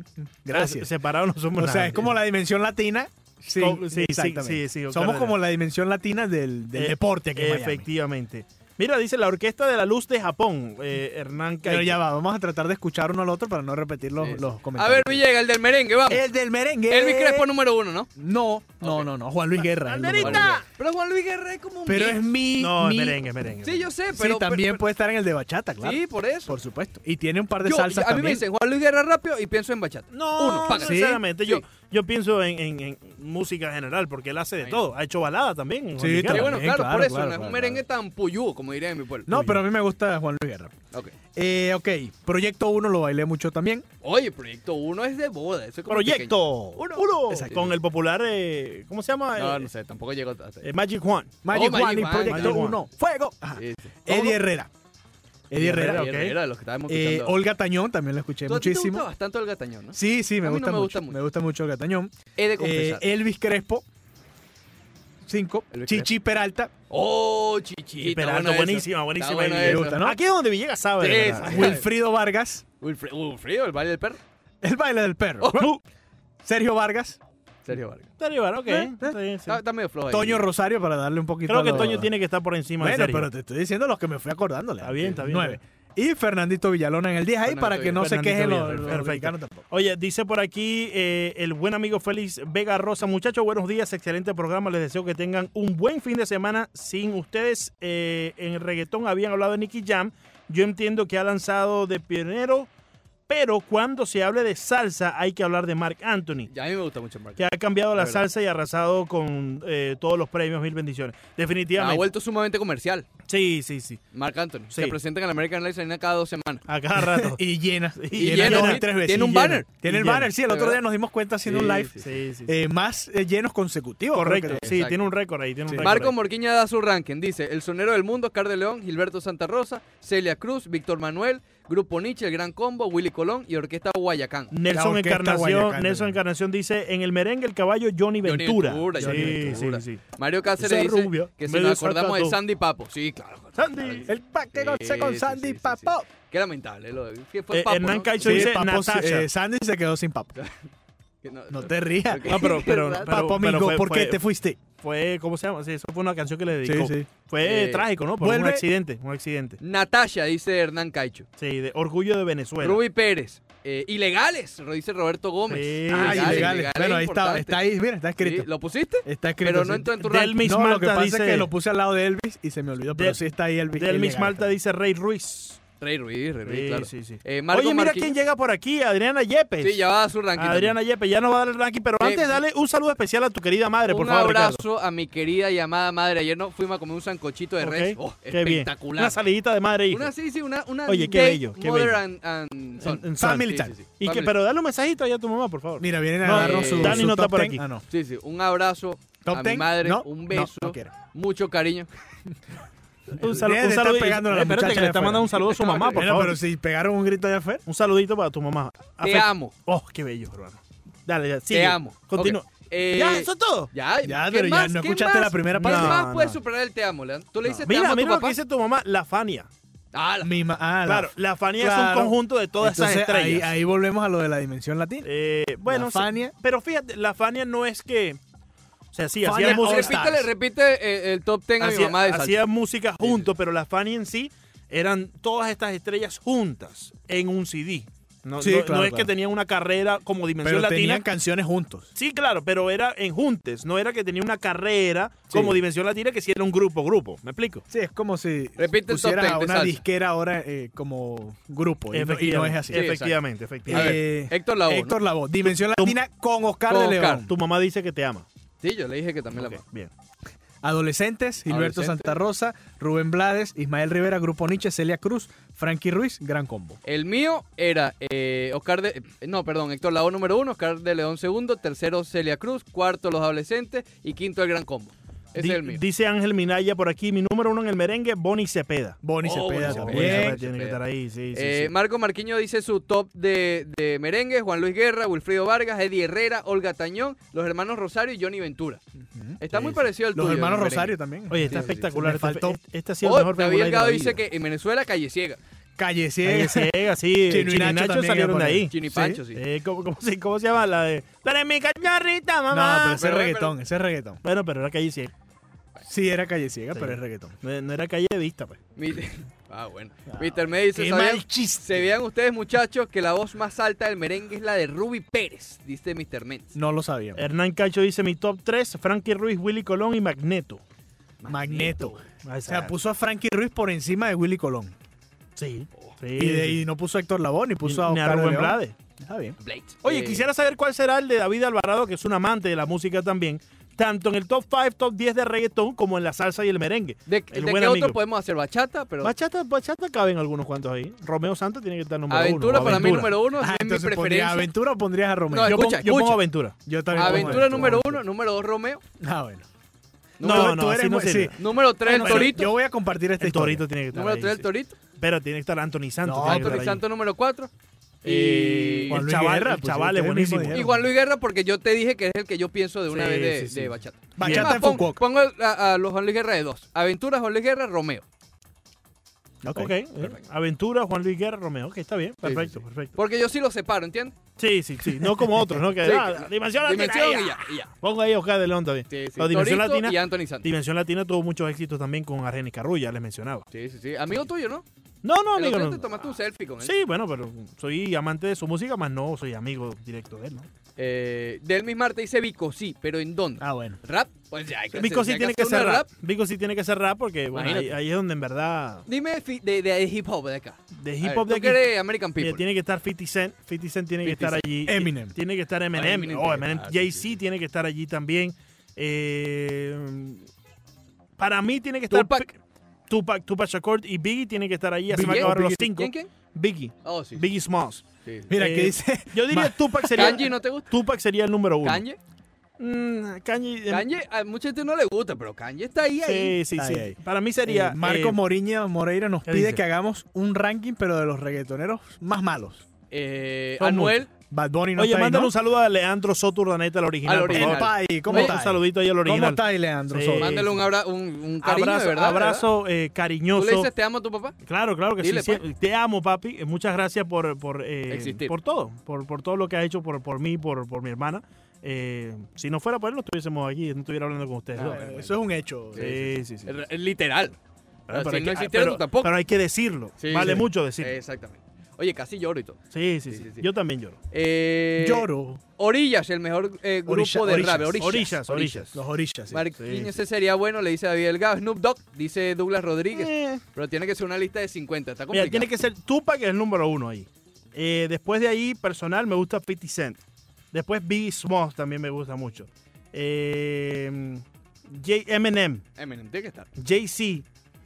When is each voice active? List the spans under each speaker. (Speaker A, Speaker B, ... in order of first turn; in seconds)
Speaker A: 0.2-0.9, 1.6-7.9, 11.6-15.2, 16.1-17.5, 18.2-20.6, 21.9-23.2, 24.1-28.4, 30.7-31.2, 36.0-37.8, 39.3-40.7, 41.4-43.9, 51.4-54.7, 55.5-56.1, 56.9-59.1, 59.9-63.9, 65.2-66.7, 69.6-70.2, 71.3-72.6, 74.6-75.7, 76.4-77.2, 78.7-79.1, 80.1-82.1, 82.8-89.6, 117.0-124.7, 125.7-126.0, 134.7-136.2, 139.0-139.6, 144.1-146.1, 148.2-150.3, 151.5-154.6, 156.6-157.1, 158.2-158.7, 165.9-168.5, 169.1-174.6, 193.2-193.7, 195.8-197.8, 199.2-200.9, 203.2-205.4, 205.9-207.6, 214.0-216.0, 220.2-225.1, 225.7-226.3, 229.2-230.3, 238.4-239.1, 240.4-241.9, 245.3-245.6, 247.7-252.9, 253.7-257.3, 260.6-266.8, 279.0-280.4, 289.1-292.6, 295.8-296.7, 297.3-299.2, 302.5-304.2, 305.8-307.4, 310.1-311.8, 316.6-317.2, 321.3-324.8, 326.2-329.4, 342.6-348.0, 349.0-349.4, 350.2-353.6, 356.0-356.7, 358.9-360.9, 364.2-365.0, 369.4-369.7, 393.4-393.8, 404.7-405.1, 414.9-415.7, 418.3-420.2, 426.6-432.6, 434.3-435.3, 437.3-440.4, 454.6-456.1, 464.8-465.4, 466.9-467.8, 468.7-469.4
Speaker B: 0.5-2.1, 3.6-5.4, 6.8-12.0, 19.7-20.6, 22.6-23.9, 30.1-36.6, 45.9-49.7, 50.6-51.5, 52.2-52.8, 55.7-56.4, 68.0-71.8, 75.5-75.8, 78.2-79.6, 81.5-83.3, 84.8-85.6, 87.9-102.7, 103.3-106.5, 107.4-112.1, 113.3-114.0, 114.7-115.0, 116.7-117.4, 118.0-120.3, 122.0-122.5, 124.1-126.1, 134.5-140.0, 140.6-142.4, 143.6-144.1, 147.5-149.3, 152.3-154.2, 154.8-159.6, 161.4-162.8, 165.5-166.6, 170.0-171.5, 172.9-173.2, 173.8-175.6, 176.5-179.8, 180.4-184.6, 187.6-190.1, 190.9-192.0, 192.8-197.6, 203.2-206.4, 207.7-213.7, 215.5-216.4, 217.5-219.5, 220.9-223.5, 225.0-228.2, 228.9-230.1, 231.6-241.0, 242.0-247.6, 251.9-254.0, 255.6-256.0, 257.3-258.3, 259.4-259.9, 275.4-279.0, 279.6-281.7, 291.3-294.2, 296.2-298.8, 299.4-303.2, 304.2-305.1, 306.8-308.6, 317.1-320.6, 322.2-322.7, 325.4-326.6, 327.6-328.8, 329.8-338.0, 339.0-343.2, 345.4-347.8, 350.2-352.4, 353.2-354.5, 355.0-356.8, 358.0-360.8, 362.9-364.9, 369.6-373.0, 374.4-383.5, 385.0-386.1, 386.6-390.5, 394.7-398.8, 400.8-401.6, 402.2-410.3, 411.2-412.4, 412.9-421.8, 422.6-423.9, 426.0-428.2, 429.3-429.6, 433.6-434.0, 434.8-440.7, 441.4-443.7, 444.4-455.1, 455.8-456.5, 457.9-460.9, 462.7-464.0, 467.8-468.8, 469.6-469.9, 472.9-473.4, 475.1-480.0, 480.5-485.6, 486.6-487.2
Speaker C: 14.2-16.3, 16.9-18.1, 18.8-19.1, 20.1-22.3, 23.6-24.8, 25.8-26.6, 27.6-31.6, 34.6-34.9, 36.3-39.6, 44.0-47.7, 49.4-50.7, 51.5-52.7, 53.6-54.4, 55.6-57.4, 58.5-61.2, 62.4-63.0, 65.7-66.1, 66.9-70.0, 71.0-71.9, 72.8-74.2, 75.4-75.7, 77.7-78.1, 79.5-80.5, 87.5-89.0, 106.5-108.2, 111.8-113.1, 114.1-116.6, 118.1-119.7, 120.5-120.8, 121.5-122.1, 124.5-125.0, 125.8-134.5, 138.2-148.5, 151.2-153.1, 157.4-157.9, 159.6-161.3, 162.6-167.6, 168.2-170.4, 175.8-178.2, 179.6-180.8, 182.0-182.4, 183.9-189.2, 189.9-194.3, 196.3-197.1, 197.9-201.9, 205.4-206.1, 209.0-209.5, 211.5-218.4, 219.9-220.3, 229.4-232.4, 233.0-233.3, 248.6-249.8, 252.7-255.0, 256.7-257.2, 258.6-259.6, 261.5-262.2, 266.8-275.8, 279.2-280.8, 281.3-288.8, 289.4-291.9, 293.0-295.4, 298.7-299.4, 303.0-303.5, 308.8-316.6, 321.2-322.0, 329.4-330.2, 337.1-339.1, 342.1-344.5, 345.3-346.2, 346.9-348.8, 350.2-350.6, 351.4-352.5, 353.9-354.8, 356.2-357.5, 358.0-359.0, 360.5-368.0, 372.2-374.1, 375.8-377.7, 378.9-380.5, 383.5-384.6, 385.3-386.7, 390.8-395.9, 397.3-397.8, 398.9-402.4, 404.0-404.4, 405.7-407.1, 411.9-412.3, 415.0-416.1, 416.8-417.3, 418.0-418.3, 419.9-420.7, 421.6-422.0, 423.7-426.4, 432.9-434.1, 437.1-438.4, 440.2-442.5, 443.3-444.4, 445.0-445.4, 447.9-448.3, 454.6-455.0, 455.7-457.4, 457.9-459.1, 460.0-463.5, 464.1-468.8, 469.3-475.5, 485.8-486.5